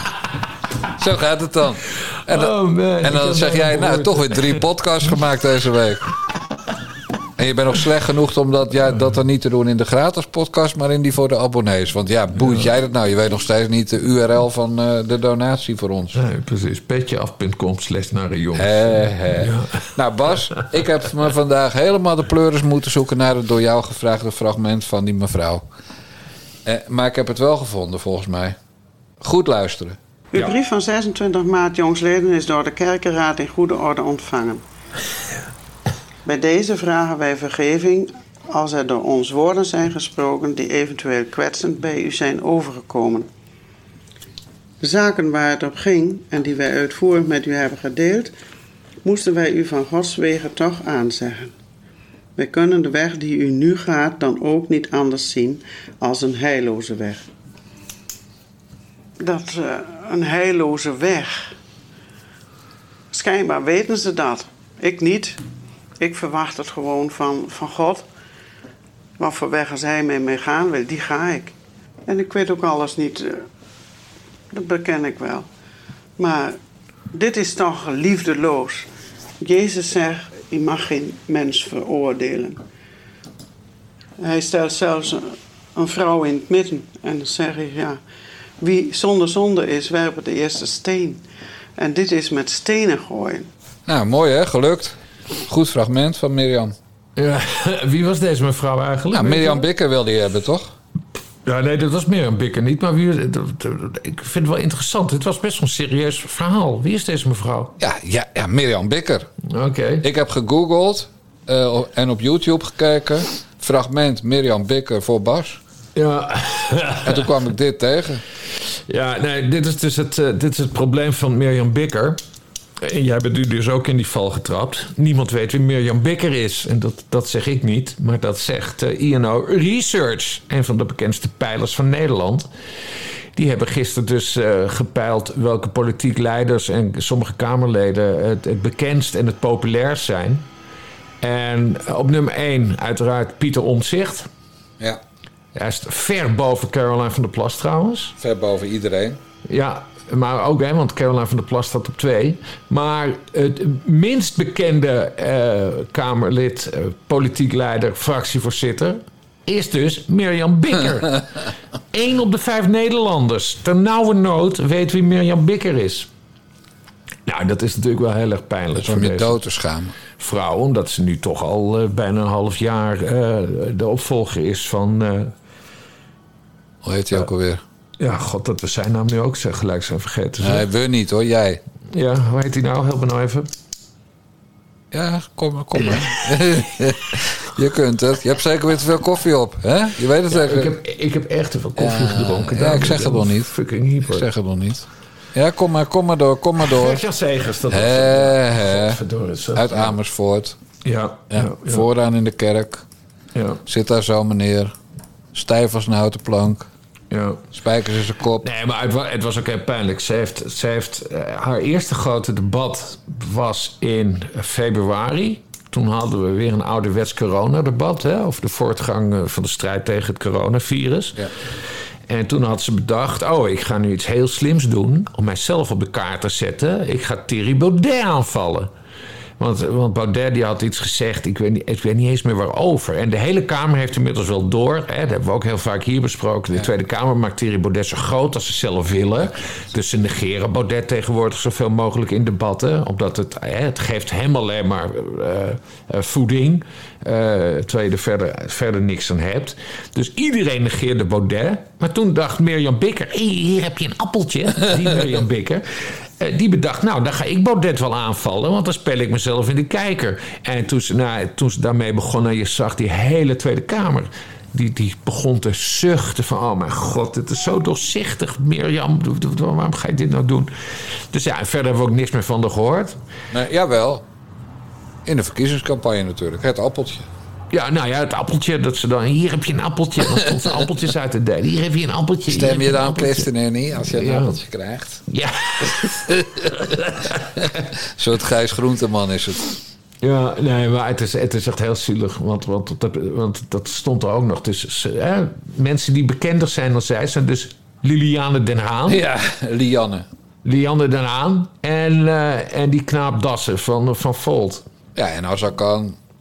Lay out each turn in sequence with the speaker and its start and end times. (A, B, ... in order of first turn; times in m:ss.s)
0:01.0-0:06.1 A
0:02.3-0:04.6 B
0:07.4-0:16.2 A
0:16.2-0:19.9 B
0:18.6-0:25.6 A
0:26.6-0:28.6 A
0:29.2-0:30.0 A
0:30.3-0:34.6 C
0:36.3-0:43.3 C
0:44.8-0:48.3 C
0:49.0-0:51.5 C
0:52.4-0:57.3 C
0:59.2-1:01.5 C
1:03.1-1:05.4 C
1:06.0-1:08.0 C
1:09.2-1:11.5 C
1:12.1-1:13.4 C
1:14.5-1:15.5 C
1:16.2-1:16.6 C
1:17.1-1:18.9 C
1:19.4-1:22.6 C
1:24.2-1:28.0 C
1:28.6-1:31.2 C
1:31.8-1:33.5 C
1:33.9-1:36.8 A
1:37.2-1:39.6 B
1:39.1-1:40.7 A
1:41.4-1:47.7 B
1:47.8-1:49.3 A
1:49.5-1:50.0 B
1:50.0-1:55.6 A
1:56.0-1:57.3 B
1:57.0-1:58.2 A
1:58.9-2:02.2 B
2:02.8-2:12.5 B
2:13.4-2:20.4 B
2:21.2-2:24.3 B
2:25.6-2:28.2 B
2:28.2-2:29.2 A
2:29.5-2:46.1 B
2:47.3-2:49.4 B
2:48.8-2:50.0 A
2:50.2-2:55.3 B
2:56.8-2:57.6 A
2:58.0-3:00.7 B
3:00.4-3:01.6 A
3:01.9-3:03.5 B
3:04.9-3:10.8 A
3:10.3-3:14.3 B
3:11.8-3:17.0 A
3:16.6-3:20.0 B
3:17.7-3:19.0 A
3:19.5-3:20.6 A
3:20.8-3:21.9 B
3:21.3-3:22.8 A
3:23.3-3:23.6 B
3:23.6-3:24.8 A
3:25.3-3:26.7 A
3:27.1-3:27.4 B
3:27.5-3:28.4 A
3:28.4-3:41.2 B
3:42.1-3:48.7 B
3:49.4-4:15.7 B
4:16.2-4:33.0 B
4:33.3-4:34.0 A
4:35.0-4:37.1 A
4:37.5-4:43.3 B
4:40.2-4:40.5 A
4:42.3-4:45.0 A
4:43.9-4:44.4 B
4:45.1-4:47.6 B
4:46.1-4:46.6 A
4:47.4-4:49.6 A
4:50.0-4:59.0 B
4:58.9-5:00.1 A
5:00.4-5:04.6 B
5:05.0-5:06.0 A